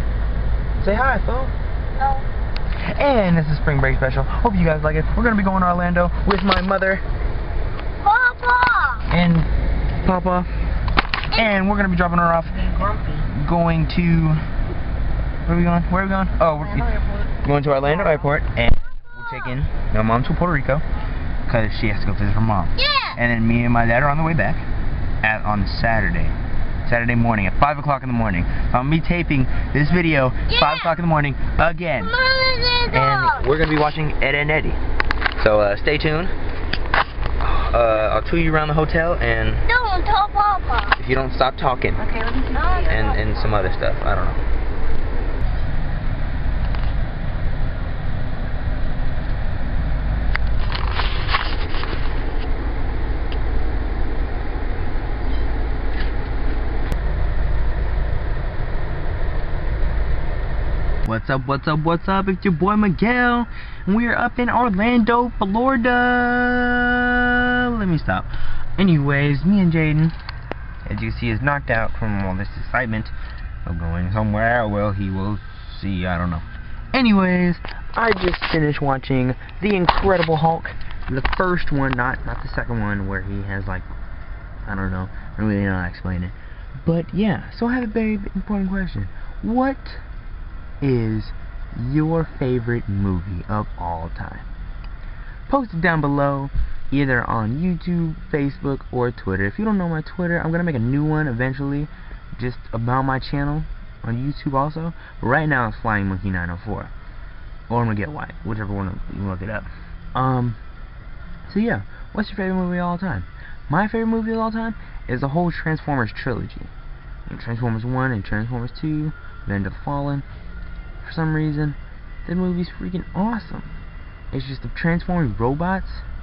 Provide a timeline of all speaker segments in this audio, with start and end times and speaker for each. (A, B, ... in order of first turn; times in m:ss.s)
0:00.8-0:01.5 A
0:02.0-0:02.2 B
0:02.9-0:07.0 A
0:08.0-0:09.0 B
0:09.1-0:09.5 A
0:10.0-0:10.5 A
0:11.3-0:14.4 A
0:15.4-0:20.8 A
0:21.4-0:24.6 A
0:22.8-0:23.1 B
0:25.2-0:32.2 A
0:30.5-0:30.9 B
0:32.1-0:33.3 B
0:32.8-0:34.8 A
0:35.4-0:36.3 A
0:37.4-0:39.7 A
0:39.7-0:40.9 B
0:41.0-0:42.2 A
0:42.5-0:42.9 B
0:42.8-0:44.4 A
1:01.0-1:10.1 A
1:10.8-1:13.1 A
1:13.6-1:23.9 A
1:24.6-1:30.0 A
1:30.8-1:34.5 A
1:35.5-1:46.9 A
1:47.7-1:50.6 A
1:51.4-1:56.7 A
1:57.3-2:00.2 A
2:01.0-2:03.7 A
2:04.3-2:06.0 A